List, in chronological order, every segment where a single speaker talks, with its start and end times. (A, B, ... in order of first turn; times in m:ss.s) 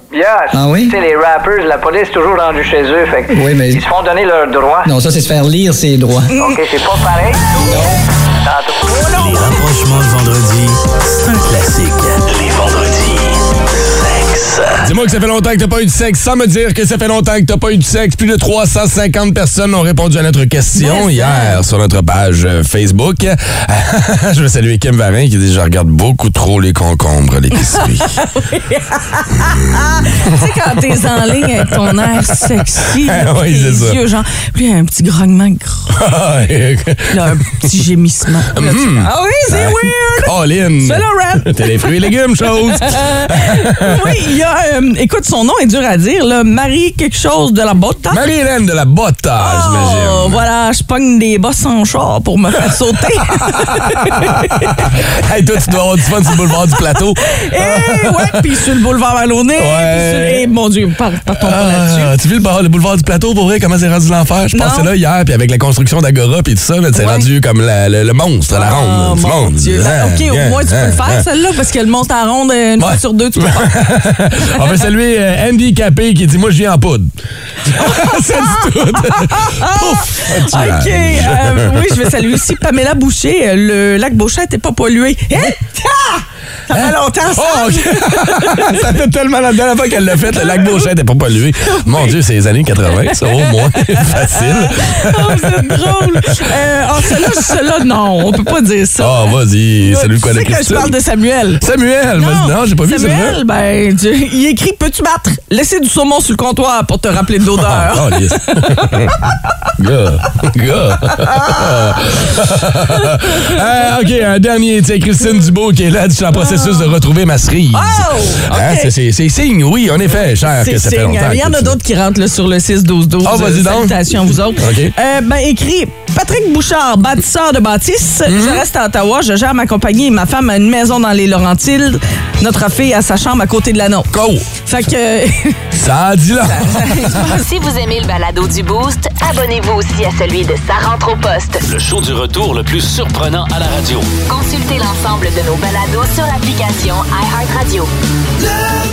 0:00.1-0:04.9 A
0:00.5-0:01.0 B
0:03.3-0:03.8 B
0:04.8-0:06.3 B
0:06.3-0:06.6 C
0:06.3-0:08.8 A
0:08.9-0:09.5 C
0:09.1-0:14.9 D
0:14.8-0:28.2 E
0:20.7-0:21.6 C
0:27.6-0:35.9 C
0:29.4-0:30.5 E
0:31.2-0:34.0 E
0:35.9-0:37.4 E
0:37.1-0:48.2 C
0:38.5-0:44.2 E
0:48.1-0:50.4 E
0:49.4-0:54.9 C
0:53.4-0:58.5 E
0:57.2-1:02.1 C
0:59.6-1:00.5 E
1:01.3-1:11.2 E
1:04.5-1:04.9 C
1:06.9-1:07.3 C
1:08.5-1:13.7 C
1:12.8-1:17.1 E
1:17.6-1:28.8 C
1:17.7-1:22.3 E
1:26.7-1:36.5 E
1:30.1-1:30.8 C
1:31.7-1:32.2 C
1:33.0-1:41.6 C
1:39.0-1:41.0 E
1:41.6-1:43.4 E
1:42.2-1:49.2 C
1:47.5-1:49.1 E
1:49.8-2:01.8 E
1:51.0-1:51.8 C
1:52.9-1:53.6 C
1:56.3-1:56.9 C
1:57.7-1:58.9 C
2:00.4-2:14.1 C
2:03.2-2:04.9 E
2:08.2-2:08.6 E
2:14.1-2:14.5 E
2:14.6-2:15.6 C
2:15.7-2:17.2 E
2:16.4-2:17.4 C
2:17.3-2:21.6 F
2:21.6-2:24.1 D
2:24.2-2:27.9 F